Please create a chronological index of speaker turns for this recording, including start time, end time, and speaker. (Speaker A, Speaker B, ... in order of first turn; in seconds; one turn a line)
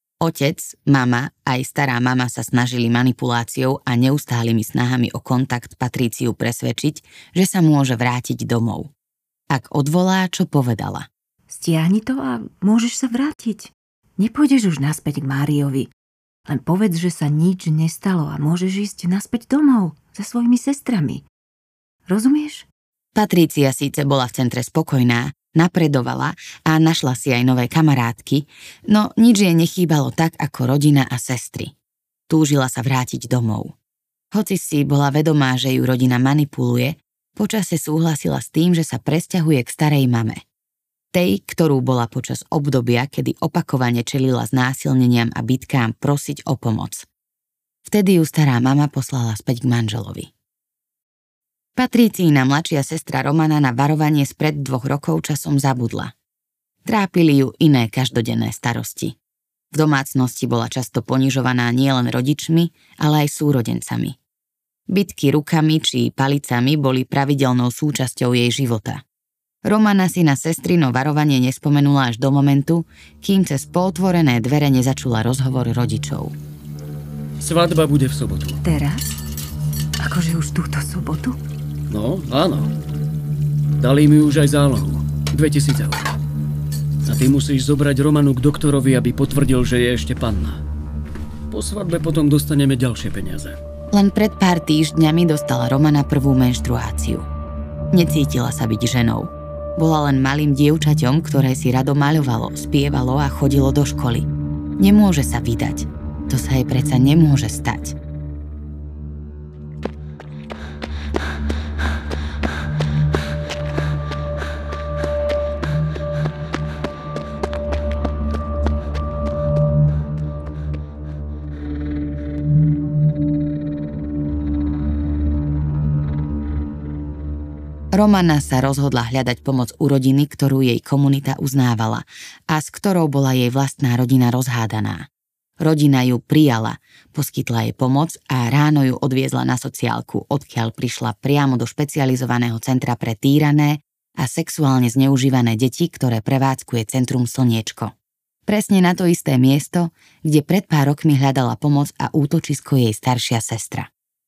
Speaker A: 0.2-8.9
Speaker A: 9.5-11.1
Speaker B: 11.5-15.9
Speaker B: 16.5-21.2
Speaker B: 22.1-22.7
Speaker A: 23.1-31.7
Speaker A: 32.3-33.7
Speaker A: 34.3-40.4
Speaker A: 41.1-47.1
Speaker A: 47.9-50.3
Speaker A: 51.8-56.1
Speaker A: 56.8-59.1
Speaker A: 59.7-64.2
Speaker A: 64.9-69.0
Speaker A: 69.6-76.3
Speaker C: 77.4-78.6
Speaker B: 78.6-79.2
Speaker B: 80.0-81.4
Speaker C: 81.9-82.7
Speaker C: 83.8-86.1
Speaker C: 87.0-90.6
Speaker C: 91.5-93.6
Speaker A: 93.9-97.3
Speaker A: 97.9-104.3
Speaker A: 104.8-108.0
Speaker A: 127.9-135.1
Speaker A: 135.6-147.9
Speaker A: 148.4-153.9